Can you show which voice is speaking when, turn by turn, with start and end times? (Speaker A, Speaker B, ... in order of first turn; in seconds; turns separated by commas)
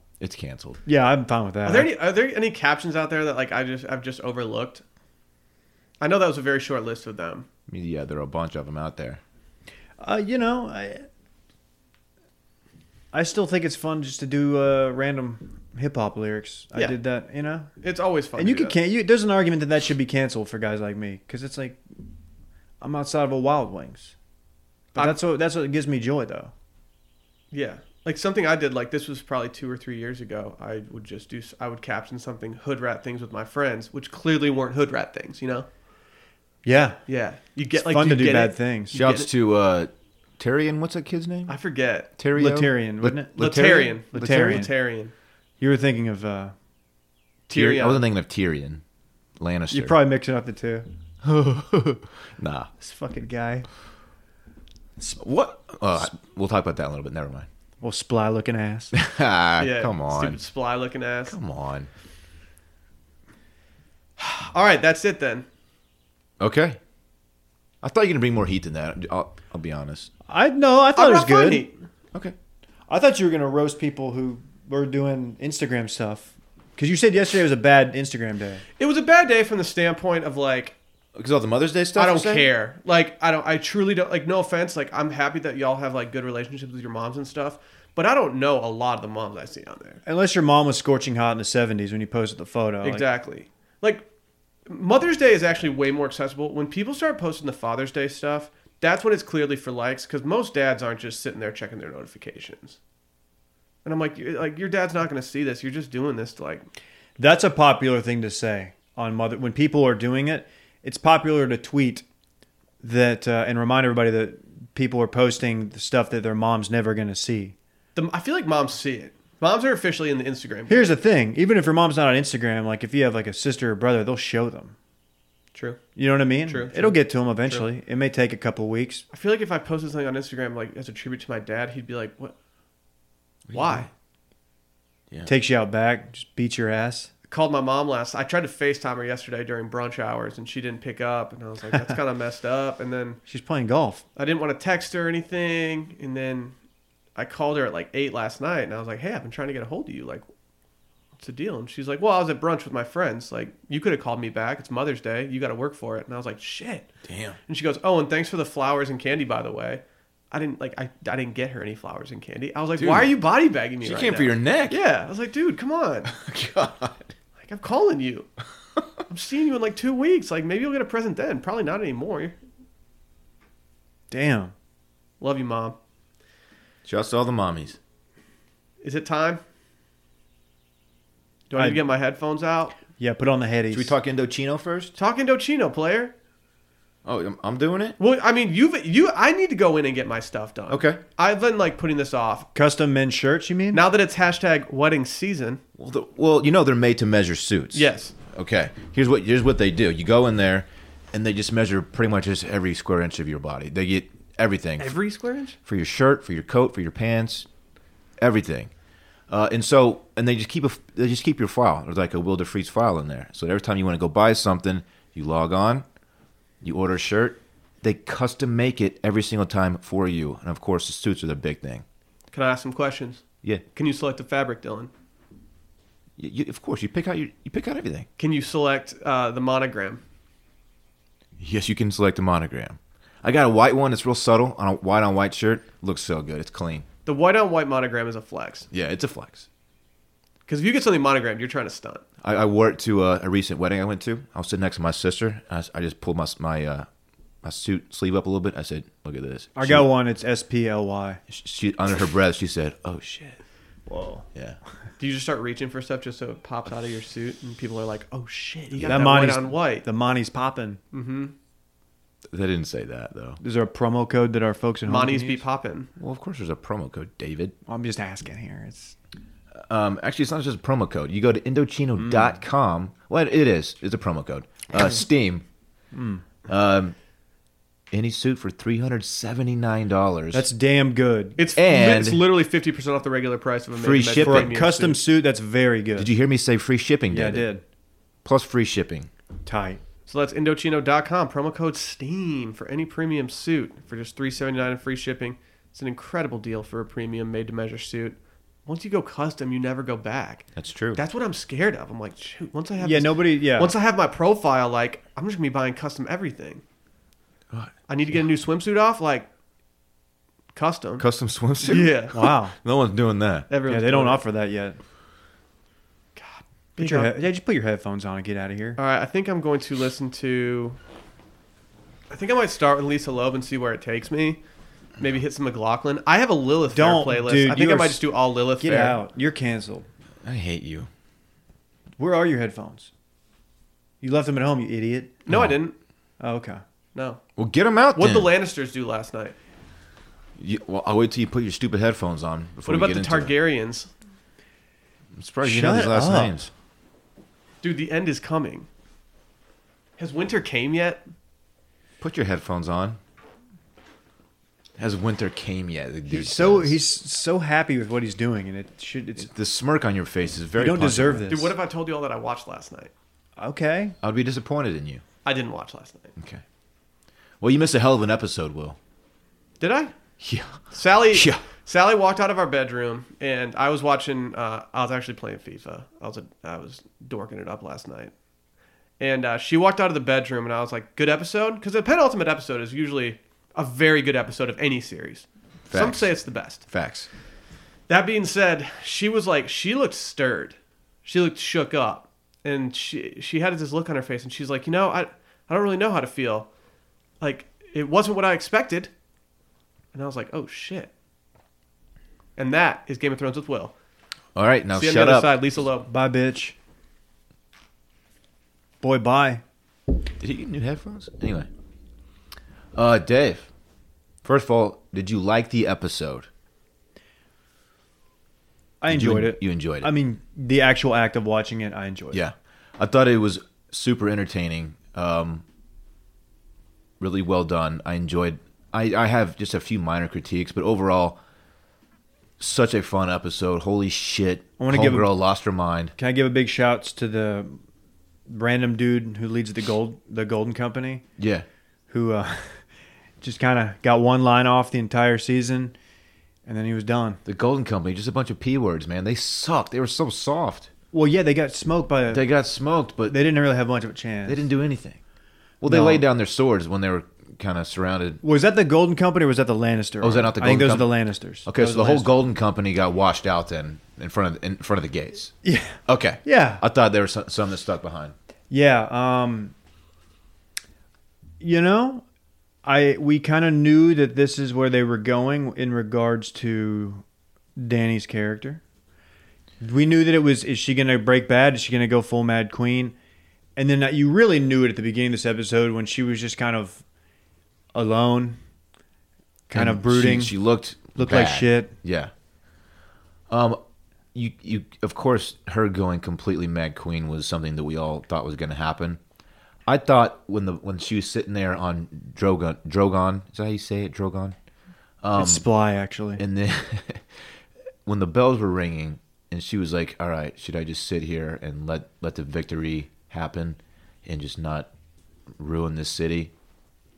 Speaker A: 0.2-0.8, Speaker B: 0.8-1.9, Speaker C: 1.6-4.8, Speaker C: 6.0-7.5, Speaker A: 7.7-9.2, Speaker B: 10.0-11.0, Speaker B: 13.1-17.7, Speaker C: 17.8-18.8, Speaker B: 18.4-21.8, Speaker B: 22.8-24.1, Speaker B: 24.9-26.5, Speaker C: 27.5-35.7, Speaker B: 36.6-37.0, Speaker C: 37.1-39.3, Speaker B: 37.7-39.0, Speaker A: 38.9-41.5, Speaker C: 41.5-42.1, Speaker A: 42.2-44.7, Speaker B: 42.3-43.3, Speaker C: 43.4-45.1, Speaker B: 44.1-44.7, Speaker B: 45.6-46.5, Speaker C: 47.5-48.0, Speaker A: 47.5-48.8, Speaker A: 49.4-50.0, Speaker B: 49.7-50.9, Speaker A: 51.2-52.7, Speaker B: 52.8-53.7, Speaker A: 55.0-57.5, Speaker B: 57.8-58.9, Speaker A: 58.9-60.4, Speaker C: 59.6-61.4, Speaker A: 61.3-61.9, Speaker C: 64.2-65.5, Speaker A: 66.4-66.8, Speaker A: 67.8-70.1, Speaker B: 70.3-71.7, Speaker C: 71.0-71.8, Speaker B: 72.9-78.6, Speaker C: 78.8-80.8, Speaker A: 81.1-82.5, Speaker C: 82.0-90.0, Speaker B: 90.0-93.0, Speaker C: 92.8-94.0, Speaker C: 94.7-102.8, Speaker C: 103.8-106.6, Speaker B: 107.2-112.0, Speaker B: 112.8-117.5, Speaker C: 117.9-120.9, Speaker B: 120.7-124.7, Speaker C: 125.5-125.8, Speaker B: 126.0-129.0, Speaker C: 126.5-127.7, Speaker C: 129.1-132.3, Speaker A: 133.5-133.9, Speaker C: 133.5-133.9, Speaker B: 135.2-137.1, Speaker C: 137.3-143.2, Speaker B: 143.3-144.0, Speaker C: 144.2-146.5, Speaker C: 147.2-150.2, Speaker C: 151.2-156.9, Speaker A: 157.0-157.4, Speaker C: 157.5-166.1, Speaker A: 162.8-163.1, Speaker A: 163.8-164.8, Speaker A: 166.1-167.1, Speaker C: 167.4-168.3, Speaker C: 169.1-172.3, Speaker B: 174.1-174.5, Speaker C: 175.2-175.8, Speaker A: 176.8-177.8, Speaker C: 178.8-179.4, Speaker C: 181.5-182.8, Speaker B: 181.6-181.8, Speaker B: 183.0-183.9, Speaker A: 183.7-184.9, Speaker C: 185.0-186.1, Speaker A: 187.0-188.0, Speaker C: 188.0-192.5, Speaker A: 190.7-191.0, Speaker B: 192.5-193.8, Speaker C: 193.7-195.6, Speaker A: 195.8-205.0, Speaker C: 197.7-198.1, Speaker C: 204.8-205.6, Speaker A: 205.6-207.5, Speaker A: 208.2-208.7, Speaker A: 209.3-215.8, Speaker A: 216.6-221.8, Speaker C: 222.3-223.2, Speaker C: 223.7-224.9, Speaker A: 226.2-228.1, Speaker C: 228.2-230.0, Speaker A: 231.4-236.8, Speaker C: 237.1-238.7, Speaker A: 238.7-239.5, Speaker C: 240.5-242.0, Speaker A: 242.2-246.9, Speaker A: 247.4-249.8, Speaker B: 249.6-251.2, Speaker A: 251.3-253.3, Speaker B: 253.9-254.2, Speaker C: 255.0-259.9, Speaker A: 258.7-259.0, Speaker B: 258.9-260.8, Speaker C: 260.9-261.3, Speaker A: 262.3-263.4, Speaker B: 263.4-265.4, Speaker C: 264.9-265.9, Speaker A: 266.0-267.5, Speaker B: 267.7-269.0, Speaker A: 269.7-275.4, Speaker B: 272.0-272.4, Speaker B: 275.9-276.2, Speaker A: 276.5-276.9, Speaker A: 277.9-280.5, Speaker B: 280.3-281.4, Speaker C: 281.4-285.0, Speaker A: 281.6-282.2, Speaker A: 283.7-284.5, Speaker B: 284.2-286.1, Speaker A: 285.9-287.5, Speaker B: 287.1-287.6, Speaker A: 288.2-289.1, Speaker B: 289.4-289.8, Speaker C: 290.1-306.6, Speaker A: 300.6-301.0, Speaker B: 302.8-303.7, Speaker C: 307.9-309.3, Speaker C: 310.5-311.1, Speaker A: 311.0-313.5, Speaker C: 311.6-312.2, Speaker B: 312.1-312.6, Speaker C: 313.5-314.2, Speaker B: 313.7-314.8, Speaker C: 316.1-317.1, Speaker B: 316.8-318.8, Speaker C: 318.8-320.8, Speaker C: 322.1-324.4, Speaker C: 325.0-329.0, Speaker B: 326.7-328.0, Speaker B: 328.6-329.9, Speaker A: 330.2-330.9, Speaker B: 332.0-332.9, Speaker B: 334.0-335.2, Speaker C: 335.2-335.7, Speaker A: 335.3-335.6, Speaker B: 336.2-336.6, Speaker C: 336.9-337.2, Speaker A: 337.4-338.3, Speaker C: 337.9-339.3, Speaker A: 340.4-343.3, Speaker C: 342.7-343.9, Speaker A: 345.1-346.5, Speaker B: 345.4-346.4, Speaker C: 347.6-348.7, Speaker C: 350.0-351.0, Speaker A: 352.0-353.0, Speaker A: 354.8-356.8, Speaker B: 356.1-359.3, Speaker A: 359.2-361.3, Speaker B: 360.6-361.5, Speaker C: 361.3-362.9, Speaker B: 363.4-363.9, Speaker A: 364.0-365.0, Speaker C: 365.2-366.1, Speaker A: 366.2-366.4, Speaker A: 367.4-368.8, Speaker C: 369.6-369.9, Speaker A: 370.2-371.4, Speaker C: 370.7-378.1, Speaker C: 379.0-386.6, Speaker A: 385.7-386.1, Speaker A: 386.6-387.1, Speaker C: 387.9-396.5, Speaker C: 397.2-398.9, Speaker C: 399.9-400.9, Speaker C: 402.4-403.7, Speaker A: 404.4-405.3, Speaker C: 404.7-405.9, Speaker B: 405.9-406.6, Speaker B: 408.8-409.4, Speaker A: 410.2-411.5, Speaker A: 412.7-413.5, Speaker A: 414.2-416.3, Speaker B: 418.8-422.2, Speaker A: 418.9-419.9, Speaker A: 422.1-425.4, Speaker A: 427.0-431.2, Speaker A: 432.4-435.9, Speaker B: 434.6-435.1, Speaker B: 436.0-437.6, Speaker B: 438.3-441.0, Speaker A: 441.2-441.4, Speaker B: 441.9-442.6, Speaker B: 443.2-445.7, Speaker B: 446.4-447.2, Speaker A: 447.2-450.7, Speaker B: 450.9-452.2, Speaker A: 452.1-453.2, Speaker B: 453.1-454.4, Speaker A: 454.2-455.0, Speaker A: 455.6-458.2, Speaker B: 455.6-456.0, Speaker B: 458.2-462.1, Speaker A: 460.0-460.9, Speaker A: 461.4-465.3, Speaker B: 465.4-466.6, Speaker A: 465.9-468.1, Speaker B: 468.5-469.5, Speaker B: 471.4-472.0, Speaker B: 472.6-477.0, Speaker B: 477.6-478.6, Speaker B: 479.6-482.9, Speaker B: 483.6-486.8, Speaker B: 487.7-488.4, Speaker B: 489.5-490.3, Speaker A: 489.5-492.1, Speaker B: 490.9-491.7, Speaker A: 493.3-493.6, Speaker A: 494.1-499.0, Speaker A: 499.7-504.4, Speaker A: 505.0-505.4, Speaker B: 505.1-506.2, Speaker A: 506.2-507.0, Speaker A: 507.9-514.7, Speaker A: 515.4-516.3